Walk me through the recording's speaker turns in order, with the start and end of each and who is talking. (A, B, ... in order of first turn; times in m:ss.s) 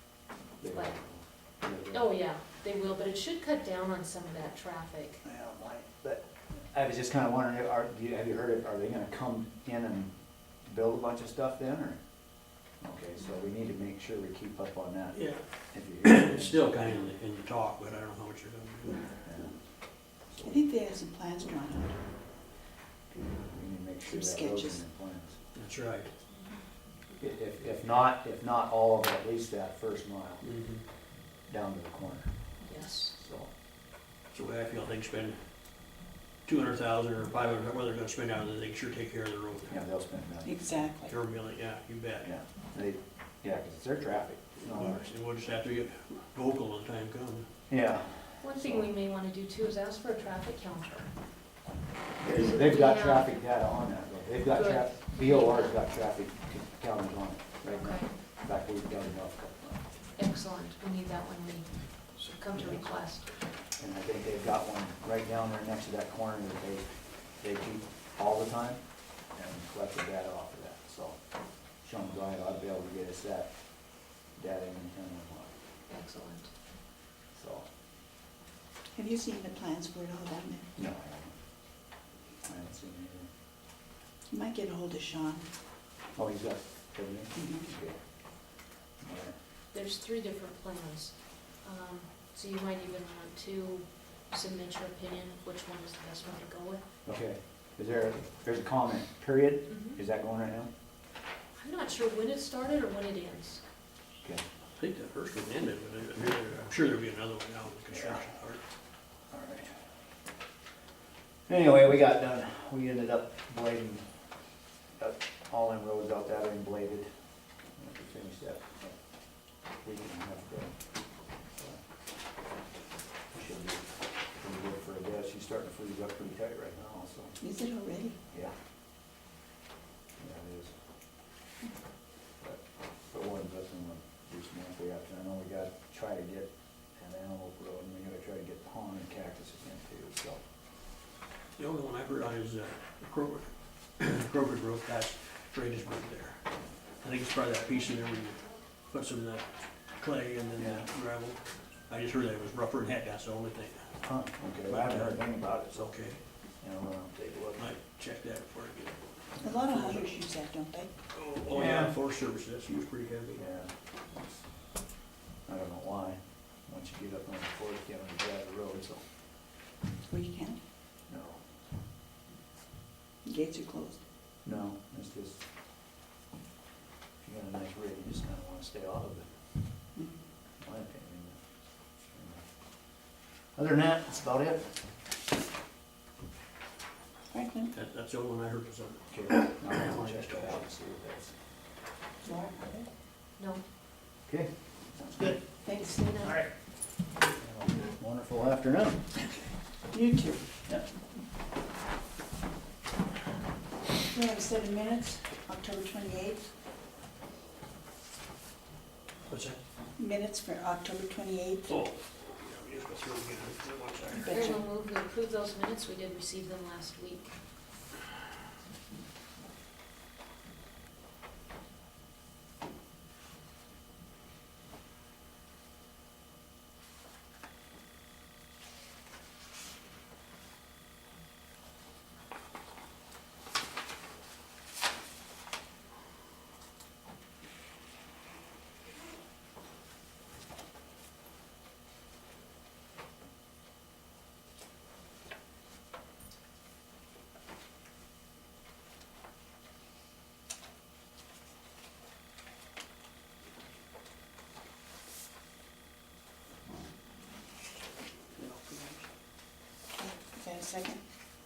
0:00.6-0:01.0 A
0:00.6-0:02.1 B
0:01.9-0:05.2 A
0:05.2-0:12.0 B
0:12.8-0:16.7 B
0:15.1-0:19.1 C
0:19.2-0:19.6 B
0:20.2-0:20.6 B
0:20.4-0:22.0 D
0:23.1-0:25.4 B
0:24.0-0:24.8 D
0:25.5-0:26.1 C
0:27.2-0:30.5 B
0:30.4-0:30.8 C
0:31.4-0:32.3 B
0:32.6-0:33.1 A
0:33.1-0:33.5 B
0:34.3-0:35.4 C
0:36.4-0:39.8 C
0:39.7-0:40.5 B
0:40.4-0:41.2 D
0:41.0-0:42.3 C
0:42.2-0:45.0 B
0:44.6-0:47.5 C
0:47.7-0:48.9 B
0:48.4-0:51.1 A
0:52.2-0:59.8 B
0:52.2-0:53.3 A
0:54.5-0:55.8 A
0:57.7-0:58.1 A
1:00.2-1:03.3 A
1:02.5-1:02.8 B
1:03.8-1:06.9 B
1:07.4-1:11.2 B
1:11.8-1:13.5 B
1:14.3-1:15.5 B
1:15.9-1:16.5 A
1:17.3-1:17.6 B
1:18.9-1:20.7 D
1:20.8-1:21.3 B
1:22.4-1:23.3 B
1:24.3-1:25.5 D
1:26.1-1:28.0 B
1:27.4-1:27.6 D
1:29.0-1:29.3 B
1:29.7-1:36.8 A
1:37.0-1:40.7 B
1:39.7-1:40.0 A
1:41.5-1:43.6 A
1:44.8-1:48.6 C
1:47.9-1:48.2 B
1:49.3-1:49.7 B
1:51.5-1:54.0 B
1:55.0-1:57.1 B
1:57.8-1:59.0 B
1:59.8-2:00.7 B
2:03.3-2:07.4 B
2:07.4-2:08.2 D
2:10.2-2:10.7 B
2:12.4-2:20.4 B
2:21.6-2:26.4 C
2:27.0-2:33.9 C
2:30.6-2:30.9 B
2:34.0-2:35.9 B
2:34.6-2:36.2 C
2:36.6-2:37.6 B
2:37.6-2:40.1 C
2:39.4-2:40.9 D
2:41.1-2:43.4 C
2:41.5-2:42.0 B
2:43.4-2:44.4 B
2:45.5-2:49.0 B
2:50.1-2:50.6 D
2:51.1-2:51.4 B
2:53.2-2:54.0 D
2:54.4-2:55.4 B
2:57.2-2:59.3 B
3:00.6-3:01.4 B
3:02.0-3:02.4 B
3:03.5-3:04.7 B
3:07.3-3:07.7 D
3:07.7-3:10.6 C
3:09.1-3:11.3 B
3:12.2-3:12.9 D
3:13.4-3:13.6 A
3:14.2-3:14.5 B
3:15.2-3:16.3 D
3:15.8-3:16.4 A
3:17.2-3:19.2 B
3:19.9-3:20.4 D
3:24.1-3:26.5 D
3:29.3-3:29.6 C
3:30.0-3:31.8 D
3:31.7-3:34.3 C
3:34.1-3:34.6 D
3:34.2-3:37.3 A
4:18.3-4:19.0 C
4:20.0-4:21.1 D